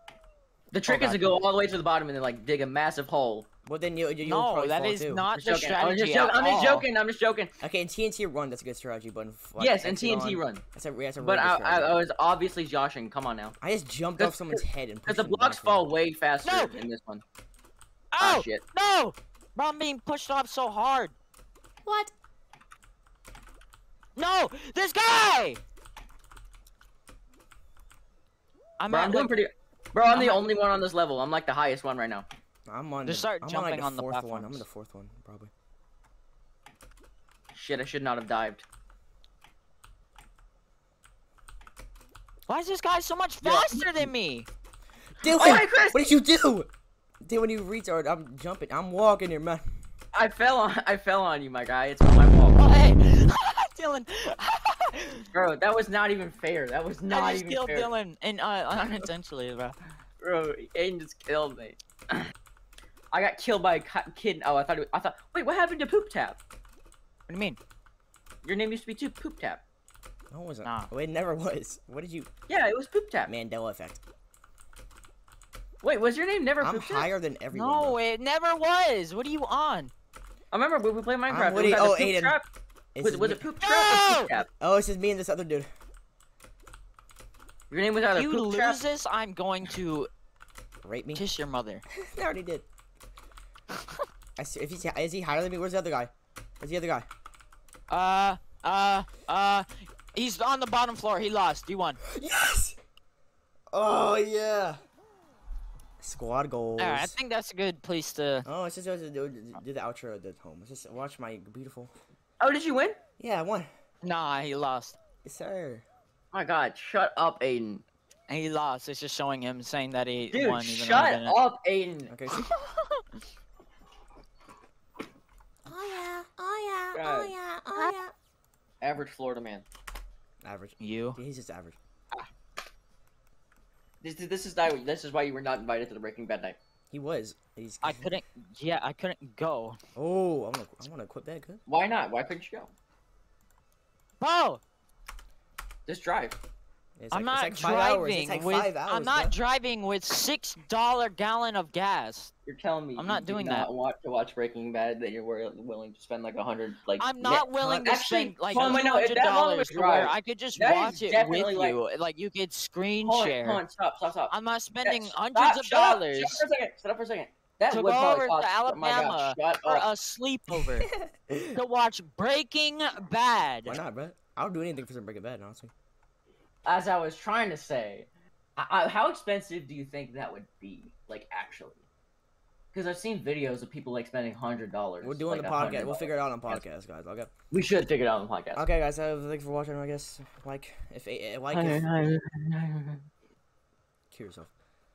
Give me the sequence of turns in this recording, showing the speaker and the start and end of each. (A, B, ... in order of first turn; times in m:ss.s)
0:00.7-0:03.5 A
0:00.9-0:01.4 B
0:03.6-0:05.2 C
0:04.2-0:06.8 B
0:05.3-0:07.5 A
0:07.6-0:12.0 C
0:09.6-0:10.6 A
0:11.2-0:13.6 A
0:13.6-0:15.9 C
0:14.2-0:17.2 A
0:16.4-0:16.8 B
0:18.1-0:21.1 B
0:18.2-0:18.6 A
0:21.8-0:22.1 D
0:24.2-0:25.6 B
0:28.8-0:29.4 B
0:28.9-0:32.2 A
0:30.0-0:30.4 B
0:32.7-0:35.5 C
0:33.0-0:34.6 B
0:37.5-0:38.6 A
0:42.5-0:44.5 B
0:43.4-0:43.8 A
0:45.2-0:46.7 C
0:45.2-0:46.0 A
0:47.2-0:49.8 C
0:50.1-0:52.6 A
0:52.6-0:55.2 B
0:55.3-0:57.9 A
0:57.1-0:59.8 B
1:00.2-1:02.3 A
1:03.1-1:06.4 A
1:07.3-1:07.6 B
1:08.4-1:09.6 A
1:10.3-1:12.3 C
1:12.5-1:13.3 A
1:13.2-1:14.0 C
1:15.8-1:17.1 A
1:16.6-1:18.0 C
1:17.5-1:19.9 B
1:20.5-1:22.4 A
1:21.3-1:22.4 C
1:22.9-1:23.4 C
1:23.0-1:24.5 A
1:23.6-1:24.3 B
1:24.6-1:25.7 C
1:27.7-1:28.8 A
1:28.1-1:30.1 B
1:30.8-1:31.2 C
1:31.1-1:31.8 B
1:31.9-1:32.6 C
1:34.4-1:37.1 C
1:37.9-1:42.0 B
1:42.0-1:42.8 C
1:43.7-1:44.8 C
1:46.0-1:47.2 C
1:46.8-1:48.4 B
1:48.4-1:51.9 C
1:52.4-1:53.0 A
1:53.2-1:53.7 C
1:54.0-1:55.0 B
1:55.2-1:55.8 C
1:56.3-1:57.8 A
1:58.3-2:01.4 B
2:00.3-2:02.1 A
2:02.1-2:02.5 C
2:02.3-2:03.0 B
2:05.6-2:08.1 D
2:06.9-2:07.3 A
2:08.8-2:09.6 A
2:10.4-2:11.8 C
2:10.8-2:11.2 B
2:14.0-2:16.6 A
2:16.9-2:18.1 C
2:17.8-2:19.8 B
2:20.0-2:21.6 C
2:21.7-2:22.7 A
2:24.2-2:24.6 B
2:25.9-2:26.4 A
2:27.0-2:29.3 C
2:27.1-2:32.3 B
2:32.4-2:41.8 A
2:33.0-2:33.7 B
2:37.0-2:43.6 B
2:43.0-2:44.3 A
2:44.3-2:46.4 B
2:44.8-2:49.8 A
2:47.7-2:50.9 B
2:50.5-2:51.6 C
2:51.5-2:53.8 B
2:53.6-2:55.7 C
2:56.6-3:01.8 A
3:02.7-3:06.6 A
3:05.0-3:07.3 C
3:07.5-3:08.6 A
3:08.5-3:12.1 C
3:11.5-3:13.0 A
3:14.1-3:14.5 C